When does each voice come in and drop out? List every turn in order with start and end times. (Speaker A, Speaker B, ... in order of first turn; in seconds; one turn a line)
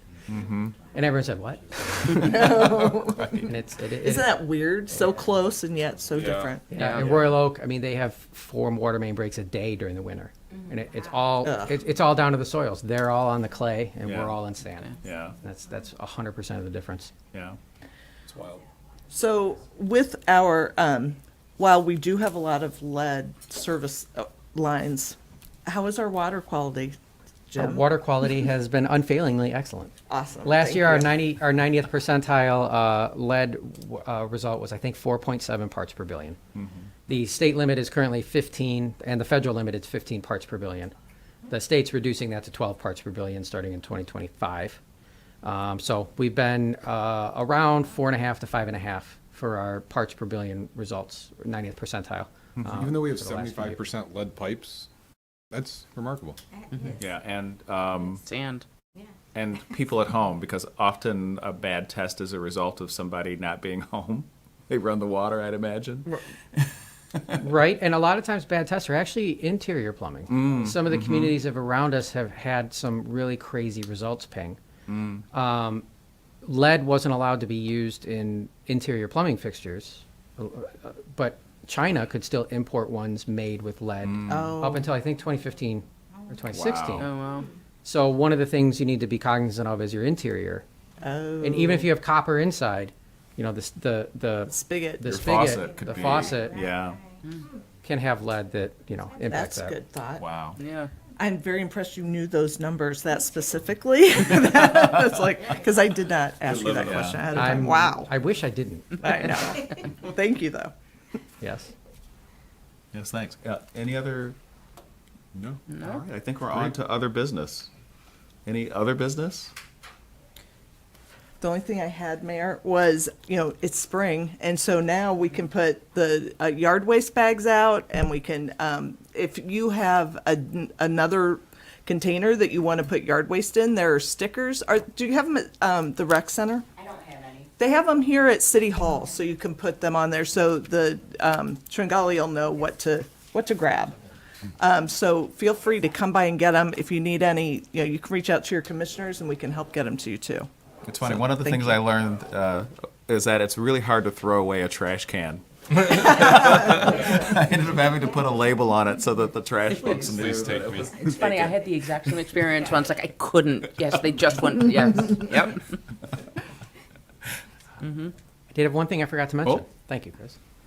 Speaker A: 0.3-0.8
Speaker B: 0.9-2.8
Speaker C: 2.1-3.5
Speaker B: 3.4-4.4
Speaker C: 4.0-6.7
Speaker D: 6.1-6.8
Speaker B: 6.7-17.1
Speaker C: 11.4-11.7
Speaker A: 14.0-14.4
Speaker A: 15.0-15.4
Speaker A: 17.3-17.6
Speaker D: 18.3-18.6
Speaker C: 19.1-27.0
Speaker C: 27.5-27.9
Speaker B: 27.6-36.4
Speaker C: 30.1-31.1
Speaker A: 36.5-36.9
Speaker B: 37.1-40.9
Speaker B: 41.5-44.8
Speaker B: 45.4-53.8
Speaker A: 52.6-52.8
Speaker E: 52.7-54.9
Speaker E: 55.5-56.4
Speaker F: 56.7-57.0
Speaker A: 57.0-58.2
Speaker F: 58.2-58.6
Speaker A: 59.3-66.1
Speaker B: 67.4-74.6
Speaker A: 70.3-71.4
Speaker A: 74.9-75.2
Speaker B: 75.3-75.8
Speaker B: 76.4-87.1
Speaker A: 84.0-84.5
Speaker C: 84.3-84.9
Speaker A: 86.5-87.1
Speaker F: 87.0-87.5
Speaker B: 87.8-90.6
Speaker C: 91.0-91.9
Speaker B: 91.4-96.6
Speaker C: 94.5-95.1
Speaker A: 95.0-97.0
Speaker B: 97.8-99.8
Speaker C: 99.3-100.3
Speaker A: 100.2-100.6
Speaker F: 100.6-100.9
Speaker C: 101.2-108.1
Speaker D: 106.5-107.3
Speaker A: 106.8-107.3
Speaker B: 107.3-109.3
Speaker C: 109.0-110.7
Speaker B: 111.4-111.7
Speaker A: 112.9-114.4
Speaker E: 115.3-115.6
Speaker F: 115.7-116.0
Speaker A: 115.7-117.7
Speaker A: 118.5-119.5
Speaker C: 121.4-136.7
Speaker C: 137.6-143.9
Speaker C: 144.6-150.5
Speaker A: 150.8-160.8
Speaker C: 151.1-151.8
Speaker D: 159.9-161.4
Speaker F: 160.8-165.6
Speaker F: 167.8-168.1
Speaker B: 168.5-170.4